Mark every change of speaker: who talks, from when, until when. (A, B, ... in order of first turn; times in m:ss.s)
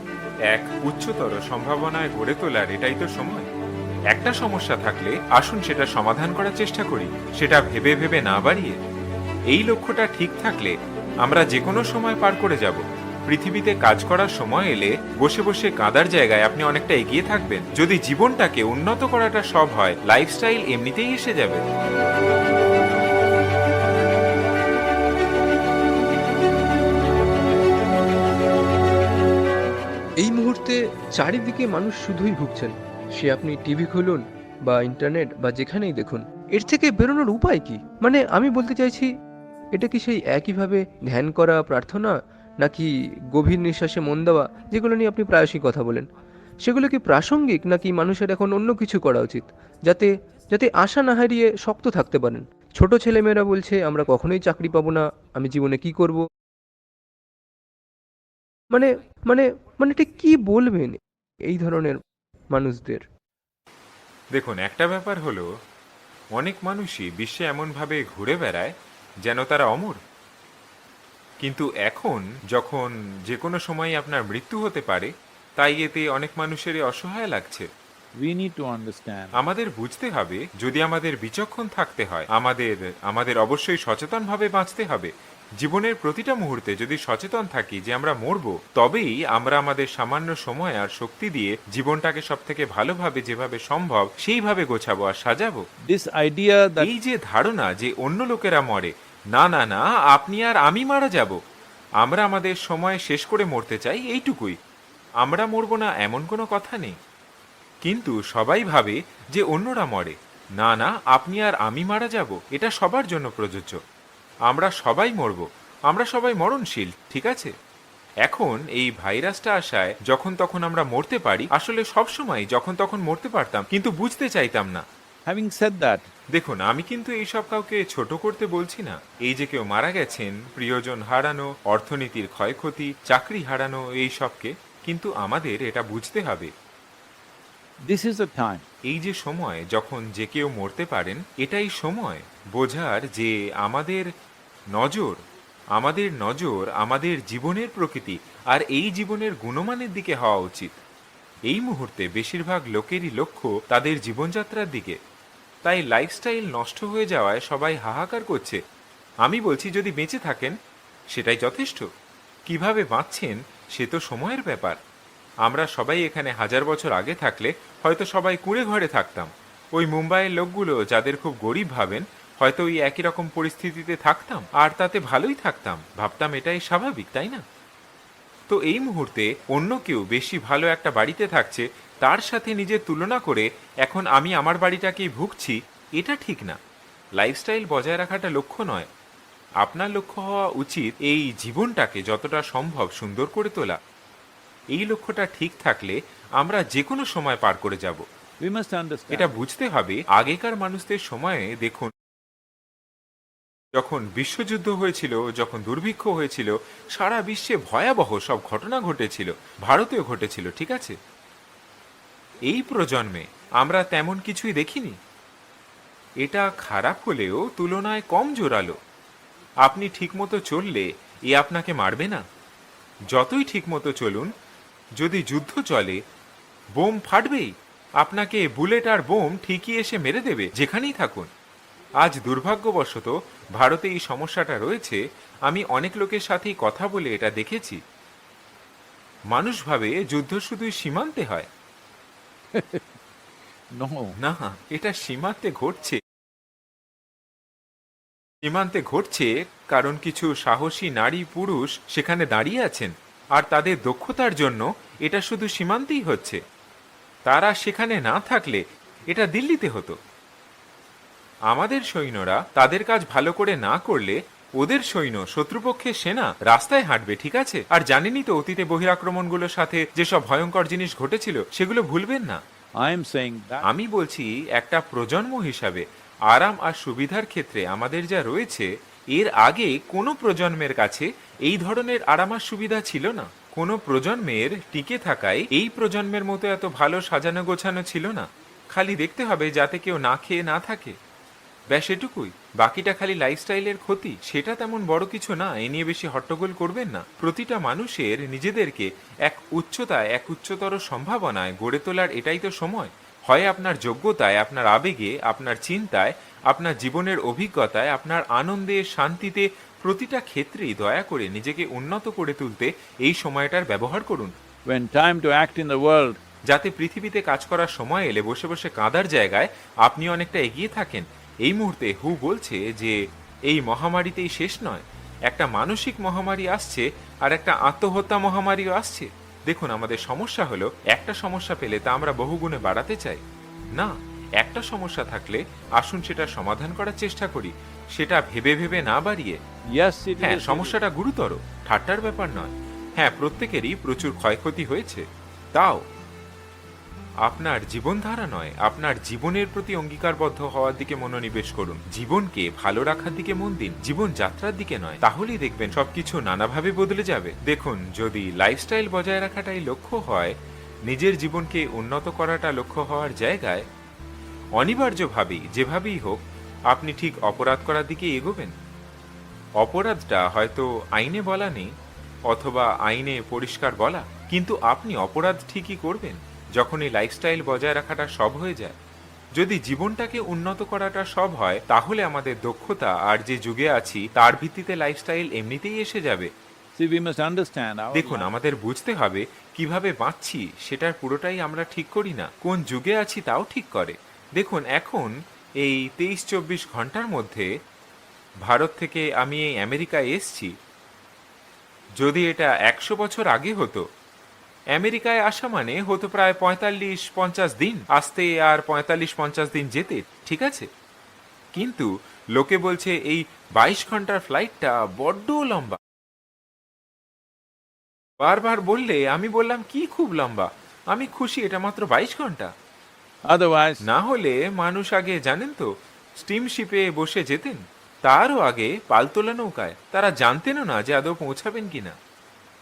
0:00.5-0:03.5 A
0:04.1-0:08.8 A
0:09.5-0:21.6 A
0:30.2-0:39.1 B
0:39.7-0:46.0 B
0:46.6-0:56.2 B
0:58.7-1:02.0 B
1:02.5-1:03.0 B
1:04.3-1:05.5 A
1:06.3-1:10.0 A
1:11.4-1:17.7 A
1:18.2-1:19.4 C
1:19.3-1:35.6 A
1:35.8-1:36.9 C
1:36.8-1:41.4 A
1:42.0-1:44.6 A
1:45.2-1:46.9 A
1:47.8-1:53.8 A
1:54.5-1:57.5 A
1:58.2-2:04.8 A
2:05.2-2:06.1 C
2:06.3-2:16.5 A
2:17.8-2:18.6 C
2:18.8-2:24.1 A
2:24.7-2:25.2 A
2:25.7-2:30.8 A
2:31.5-2:35.0 A
2:35.6-2:38.6 A
2:39.2-2:40.5 A
2:41.1-2:41.8 A
2:42.5-2:44.8 A
2:45.4-2:57.4 A
2:58.5-3:06.6 A
3:07.2-3:08.9 A
3:09.6-3:13.8 A
3:14.7-3:18.0 A
3:18.4-3:19.4 C
3:19.1-3:21.9 A
3:23.8-3:31.0 A
3:32.4-3:35.0 A
3:36.2-3:38.8 A
3:39.6-3:42.2 A
3:43.1-3:44.3 A
3:45.0-3:46.0 A
3:46.7-3:51.3 A
3:52.0-3:57.8 A
3:59.3-4:01.5 A
4:02.5-4:03.0 C
4:03.8-4:04.1 C
4:04.2-4:06.0 A
4:08.4-4:16.4 A
4:17.2-4:20.0 A
4:21.5-4:32.4 A
4:32.8-4:33.6 C
4:33.6-4:50.9 A
4:51.7-5:14.3 A
5:14.7-5:16.2 C
5:16.5-5:23.0 A
5:23.5-5:33.2 A
5:33.7-5:39.4 A
5:39.7-5:40.8 C
5:40.2-5:45.8 A
5:47.2-6:00.4 A
6:00.9-6:03.6 A
6:04.6-6:08.5 A
6:09.6-6:11.7 A
6:12.3-6:18.8 A
6:19.4-6:26.3 A
6:26.7-6:28.3 C
6:27.9-6:37.5 A
6:38.4-6:40.5 A
6:42.0-6:43.8 A
6:44.7-6:50.7 A
6:51.5-6:55.8 A
6:58.2-7:02.5 A
7:03.3-7:03.8 C
7:03.8-7:05.7 A
7:06.2-7:11.9 A